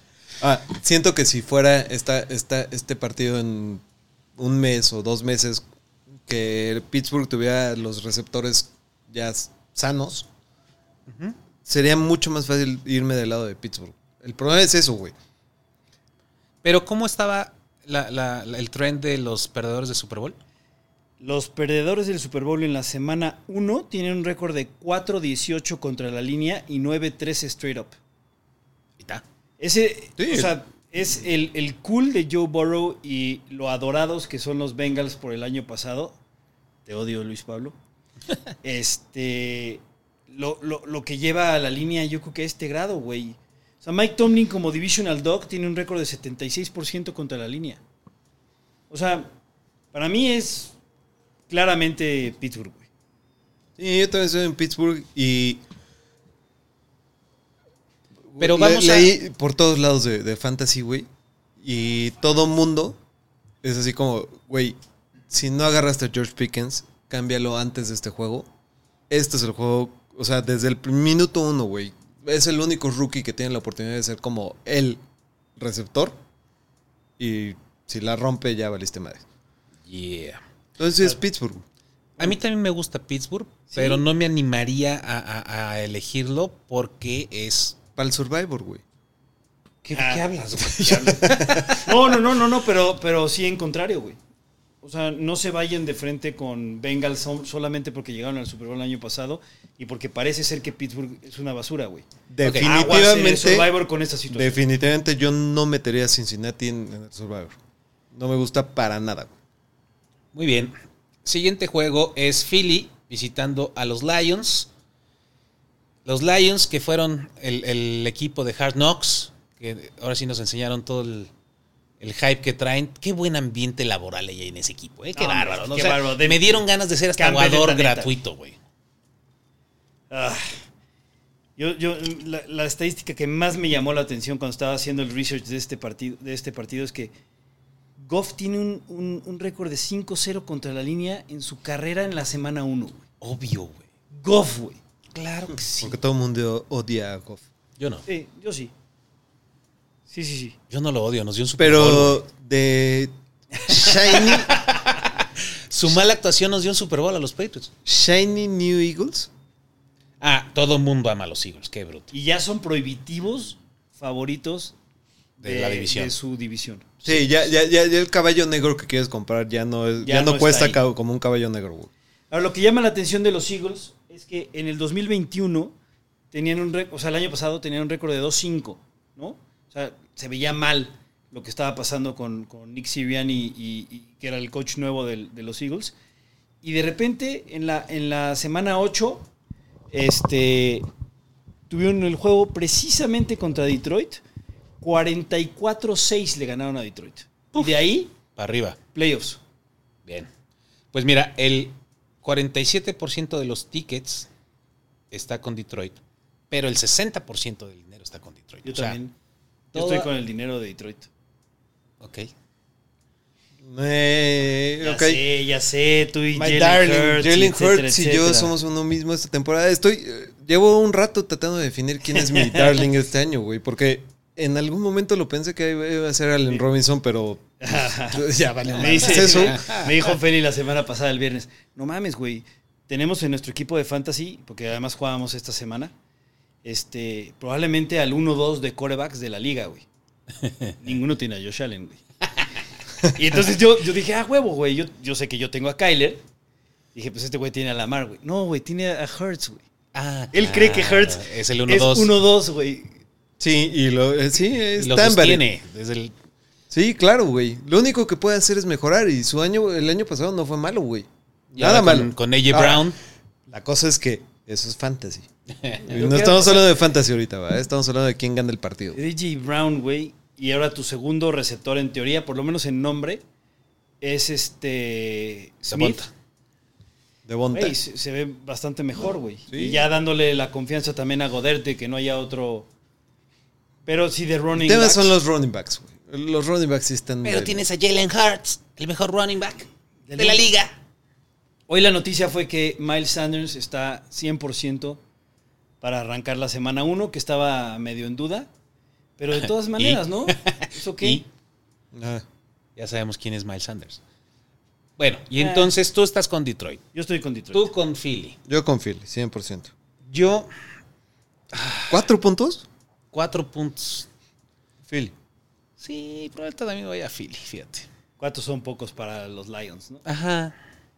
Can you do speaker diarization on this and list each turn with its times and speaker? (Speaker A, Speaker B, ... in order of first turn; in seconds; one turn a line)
Speaker A: 0.4-3.8
Speaker A: 4.4-5.6
Speaker A: 6.3-10.3
Speaker B: 11.1-11.3
Speaker A: 11.7-15.1
Speaker B: 16.6-20.4
Speaker C: 21.2-27.9
Speaker C: 29.6-36.2
Speaker A: 30.2-30.5
Speaker C: 36.9-37.8
Speaker C: 38.6-47.8
Speaker C: 48.9-49.3
Speaker C: 49.9-50.7
Speaker C: 51.5-52.9
Speaker A: 53.8-55.6
Speaker A: 58.3-61.1
Speaker B: 58.4-59.1
Speaker A: 61.6-63.0
Speaker A: 63.6-64.8
Speaker A: 65.3-68.5
Speaker A: 69.1-75.0
Speaker A: 75.6-76.2
Speaker A: 77.2-79.2
Speaker B: 79.9-80.4
Speaker A: 80.8-81.6
Speaker B: 82.2-87.8
Speaker C: 83.7-84.0
Speaker A: 88.0-88.8
Speaker B: 89.8-91.9
Speaker C: 89.9-90.8
Speaker A: 90.9-91.9
Speaker C: 91.8-94.2
Speaker C: 94.8-104.6
Speaker A: 102.3-103.7
Speaker B: 102.4-102.8
Speaker A: 104.3-107.5
Speaker A: 108.1-109.3
Speaker B: 110.3-110.7
Speaker B: 111.2-114.7
Speaker B: 116.1-121.3
Speaker B: 122.0-128.6
Speaker C: 125.2-126.6
Speaker C: 127.2-128.1
Speaker C: 130.1-130.6
Speaker C: 131.6-137.1
Speaker C: 138.0-143.0
Speaker B: 143.2-143.8
Speaker C: 144.1-144.8
Speaker B: 145.2-146.0
Speaker A: 145.8-147.4
Speaker B: 147.8-148.1
Speaker C: 148.1-148.7
Speaker C: 150.1-150.6
Speaker B: 150.7-152.2
Speaker A: 151.6-153.1
Speaker A: 153.7-154.6
Speaker B: 153.8-157.7
Speaker A: 157.9-159.3
Speaker B: 160.2-162.1
Speaker C: 162.1-164.7
Speaker C: 165.4-167.3
Speaker B: 165.4-166.1
Speaker A: 167.1-171.9
Speaker C: 170.0-170.8
Speaker C: 172.3-175.7
Speaker C: 176.3-185.9
Speaker C: 186.6-189.3
Speaker C: 189.9-190.8
Speaker C: 191.7-194.2
Speaker C: 194.8-198.1
Speaker B: 198.3-198.8
Speaker C: 198.9-199.4
Speaker B: 200.1-200.3
Speaker B: 200.9-204.3
Speaker B: 205.1-209.0
Speaker C: 208.7-209.1
Speaker C: 209.7-211.1
Speaker B: 209.7-210.1
Speaker B: 212.0-212.3
Speaker A: 213.6-215.2
Speaker C: 214.8-218.5
Speaker A: 216.3-229.7
Speaker C: 222.1-222.9
Speaker C: 227.6-235.9
Speaker B: 228.7-229.9
Speaker C: 236.6-239.8
Speaker B: 240.4-240.8
Speaker C: 240.8-242.0
Speaker C: 243.1-246.2
Speaker C: 246.9-249.6
Speaker B: 249.9-252.1
Speaker C: 250.3-253.0
Speaker A: 253.4-255.4
Speaker B: 254.8-256.1
Speaker A: 256.7-262.9
Speaker B: 261.6-263.0
Speaker A: 263.5-265.3
Speaker C: 265.9-266.8
Speaker A: 265.9-269.0
Speaker C: 268.9-273.2
Speaker C: 274.0-276.1
Speaker B: 275.7-276.1
Speaker A: 277.3-277.8
Speaker C: 277.5-282.7
Speaker A: 279.5-279.9
Speaker C: 283.9-285.2
Speaker A: 284.6-287.6
Speaker B: 287.2-290.8
Speaker C: 290.1-290.5
Speaker C: 291.7-295.0
Speaker C: 295.8-298.5
Speaker C: 299.2-301.2
Speaker B: 299.3-301.2
Speaker A: 301.9-302.2
Speaker B: 302.8-304.0
Speaker B: 305.0-306.8
Speaker C: 305.4-305.7
Speaker C: 306.9-307.7
Speaker B: 307.5-308.4
Speaker A: 308.5-309.7
Speaker B: 310.1-310.5
Speaker B: 311.5-312.0
Speaker A: 311.9-312.7
Speaker B: 313.1-314.1
Speaker A: 314.9-315.1
Speaker B: 315.8-317.9
Speaker C: 318.2-320.0
Speaker B: 320.1-320.6